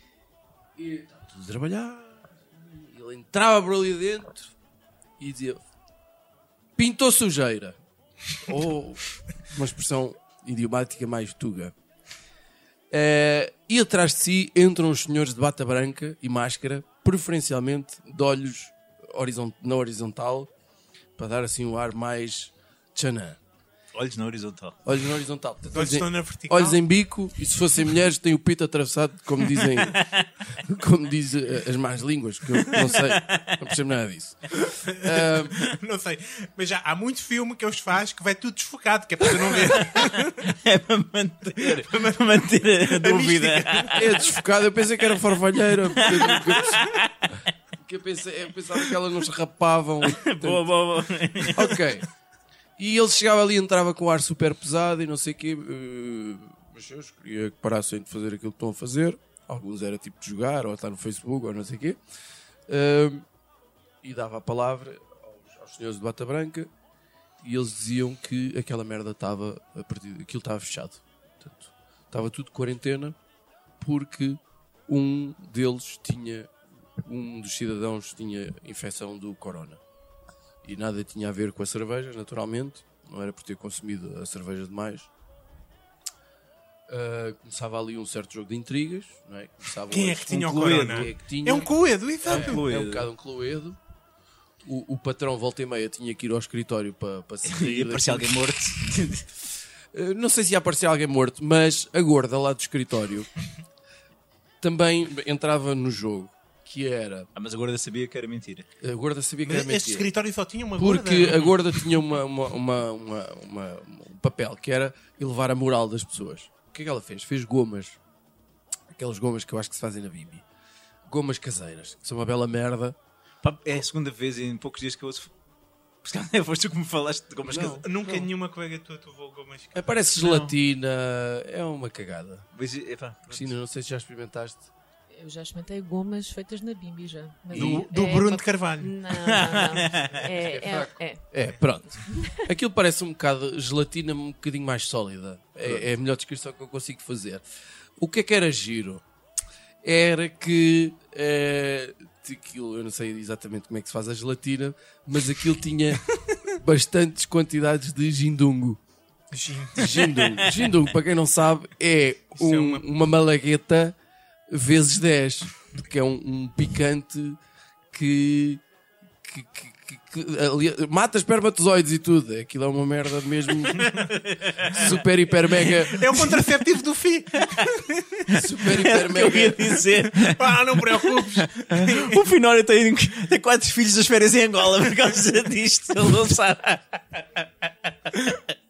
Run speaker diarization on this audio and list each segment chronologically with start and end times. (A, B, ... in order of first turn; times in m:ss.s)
0:00.8-0:04.5 A
0:05.2-0:05.6 A
0:06.8-0:07.8 A
0:08.4-0:11.7 A
0:12.9-0:20.5 A
0:21.2-0:23.4 A
0:23.9-0:24.8 B
0:24.8-0:35.6 A
0:25.7-0:26.8 C
0:29.6-0:30.3 B
0:32.6-0:33.7 B
0:34.8-0:40.6 C
0:39.2-0:44.3 B
0:41.6-0:42.2 C
0:42.8-0:44.1 C
0:43.9-0:47.0 A
0:45.7-0:47.5 B
0:47.8-0:50.7 A
0:50.0-0:51.9 B
0:51.5-0:52.1 A
0:52.8-1:02.0 A
1:02.7-1:03.3 A
1:04.0-1:06.7 A
1:07.4-1:13.2 A
1:13.8-1:19.8 A
1:20.6-1:25.1 A
1:26.9-1:33.8 A
1:29.9-1:32.6 C
1:30.5-1:31.1 B
1:32.2-1:33.1 B
1:34.6-1:38.5 A
1:37.4-1:39.3 B
1:39.9-1:43.3 A
1:44.6-1:47.3 A
1:47.4-1:48.7 B
1:48.8-1:50.1 A
1:49.4-1:51.6 C
1:50.8-1:58.0 A
1:58.9-2:00.4 A
2:01.1-2:03.0 A
2:03.4-2:05.3 B
2:06.0-2:07.8 B
2:07.4-2:08.3 A
2:07.8-2:10.4 C
2:09.7-2:12.5 A
2:10.2-2:10.5 B
2:12.6-2:13.5 B
2:13.3-2:14.7 A
2:15.1-2:22.5 D
2:17.5-2:17.9 A
2:17.5-2:19.0 C
2:19.2-2:20.2 B
2:20.2-2:27.4 A
2:28.0-2:29.0 A
2:29.8-2:38.8 A
2:39.3-2:40.1 C
2:39.8-2:44.0 A
2:40.2-2:40.7 B
2:42.4-2:42.9 C
2:44.5-2:47.4 A
2:47.9-2:48.6 A
2:49.2-2:53.9 A
2:53.7-2:54.1 C
2:54.1-2:56.4 B
2:54.6-2:56.0 A
2:55.9-2:57.9 C
2:57.4-3:07.4 B
2:58.3-2:59.8 A
3:00.2-3:02.3 C
3:08.1-3:08.4 B